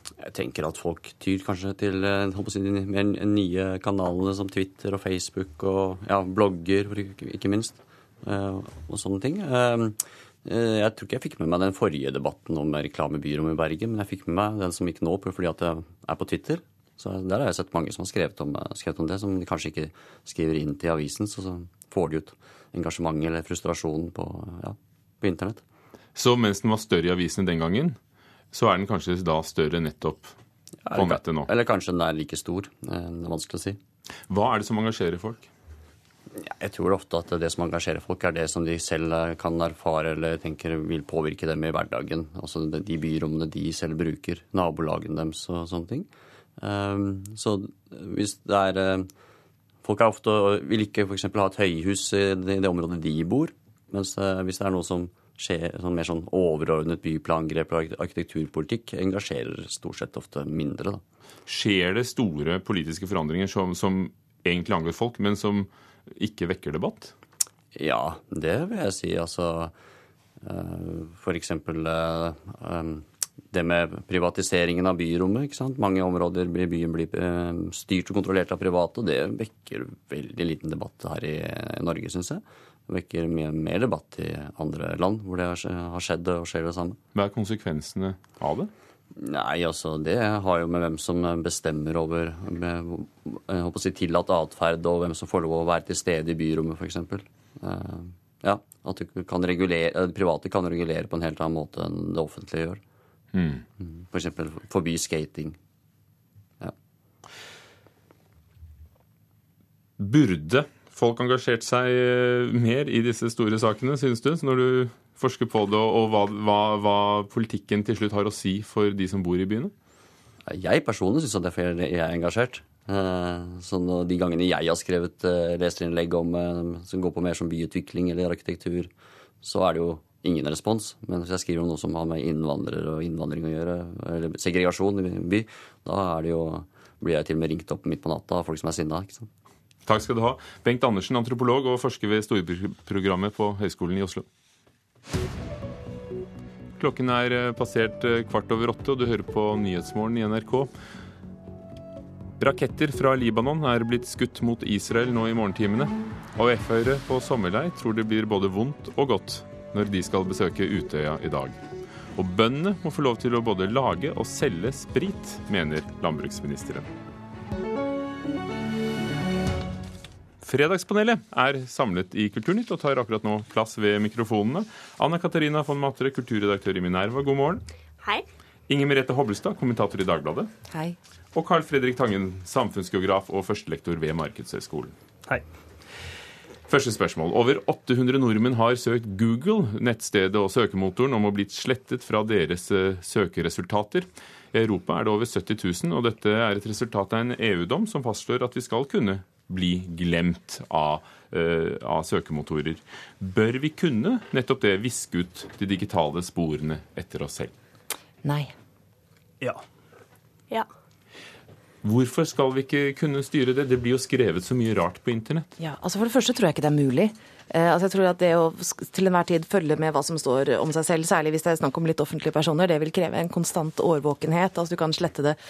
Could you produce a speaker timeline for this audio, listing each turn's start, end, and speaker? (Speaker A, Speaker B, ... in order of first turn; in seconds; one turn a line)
Speaker A: 0.2-25.6
Speaker B: 26.2-28.0
Speaker B: 28.5-30.3
Speaker A: 30.9-33.8
Speaker B: 30.9-31.5
Speaker B: 34.3-35.5
Speaker A: 36.4-49.1
Speaker A: 49.8-61.0
Speaker B: 61.5-67.1
Speaker A: 67.8-69.7
Speaker A: 70.4-87.0
Speaker B: 87.2-88.7
Speaker A: 89.2-102.8
Speaker B: 103.3-103.6
Speaker A: 103.8-105.6
Speaker B: 110.0-119.7
Speaker A: 120.5-128.9
Speaker A: 129.4-139.3
Speaker B: 139.9-144.2
Speaker B: 146.8-150.7
Speaker B: 152.4-161.6
Speaker B: 162.2-166.9
Speaker B: 170.4-177.6
Speaker B: 178.7-180.5
Speaker C: 180.7-181.0
Speaker B: 181.3-184.9
Speaker B: 186.7-207.5
Speaker C: 208.2-208.5
Speaker B: 211.8-215.5
Speaker C: 215.6-225.4